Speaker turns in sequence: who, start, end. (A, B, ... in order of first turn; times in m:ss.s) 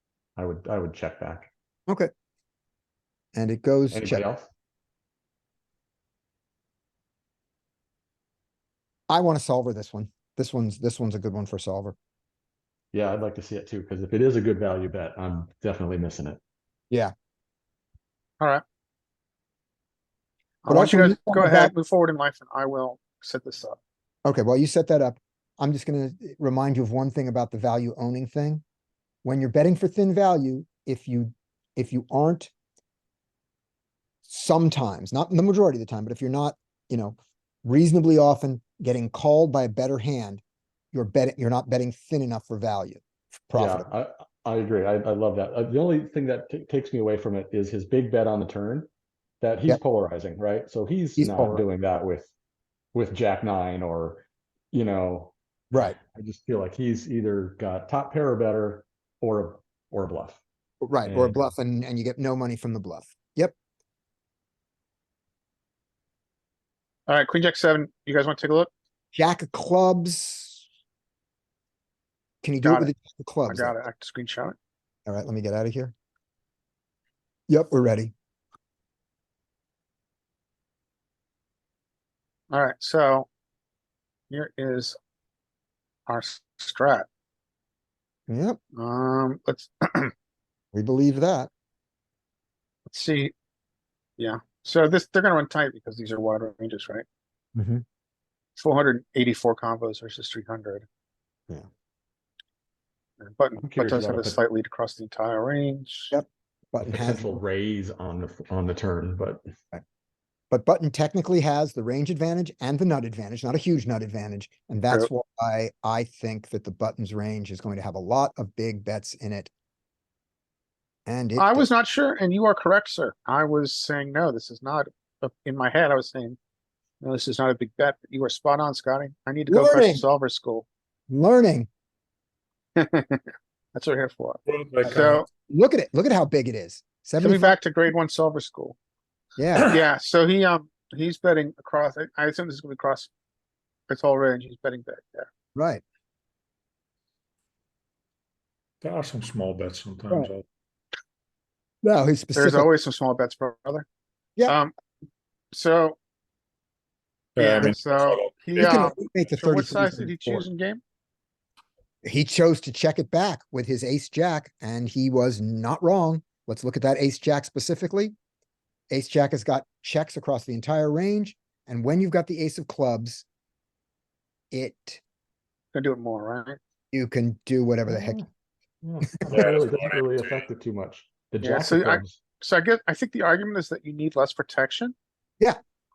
0:00.4-0:01.5 A
0:03.3-0:04.3 B
0:03.9-0:04.5 A
0:09.1-0:12.0 B
0:12.9-0:16.4 A
0:20.6-0:23.8 C
0:20.7-0:21.7 B
0:24.2-0:28.6 B
0:29.2-0:32.5 B
0:34.2-0:43.9 B
0:43.5-0:48.9 A
0:49.4-0:52.3 A
0:51.2-0:51.6 B
0:52.9-0:55.3 A
0:55.7-0:56.0 B
0:56.0-1:00.4 A
1:00.8-1:03.5 B
1:01.0-1:01.4 A
1:07.1-1:08.7 C
1:09.1-1:10.6 B
1:12.4-1:13.7 B
1:12.6-1:12.9 C
1:13.5-1:14.6 C
1:15.0-1:15.9 B
1:17.5-1:18.1 B
1:22.5-1:23.3 C
1:24.3-1:25.0 C
1:26.1-1:27.1 C
1:28.3-1:28.6 B
1:28.7-1:30.1 C
1:30.7-1:31.5 B
1:32.9-1:33.3 C
1:34.2-1:37.0 C
1:37.6-1:37.8 B
1:38.6-1:40.8 C
1:43.2-1:46.1 C
1:43.6-1:44.4 A
1:46.1-1:47.4 B
1:46.8-1:49.4 A
1:50.5-1:59.5 B
2:01.0-2:01.7 B
2:01.4-2:06.4 C
2:07.0-2:10.6 C
2:09.5-2:10.0 B
2:11.1-2:11.7 B
2:12.8-2:15.2 C
2:14.5-2:15.2 D
2:15.5-2:17.6 B
2:17.2-2:18.8 C
2:19.4-2:19.8 B
2:19.6-2:23.1 C
2:23.9-2:25.3 C
2:25.5-2:25.8 B
2:28.8-2:30.4 D
2:31.8-2:32.7 B
2:32.3-2:33.8 C
2:34.4-2:34.7 C
2:35.5-2:36.0 C
2:37.4-2:38.8 D
2:37.4-2:40.8 C
2:38.6-2:40.4 B
2:42.0-2:48.1 B
2:48.9-2:53.2 B
2:54.5-2:55.0 B
2:55.7-2:56.6 C
2:56.9-2:58.2 B
2:57.9-2:58.3 A
2:58.8-3:02.2 A
2:59.3-3:00.4 D
3:01.4-3:04.9 C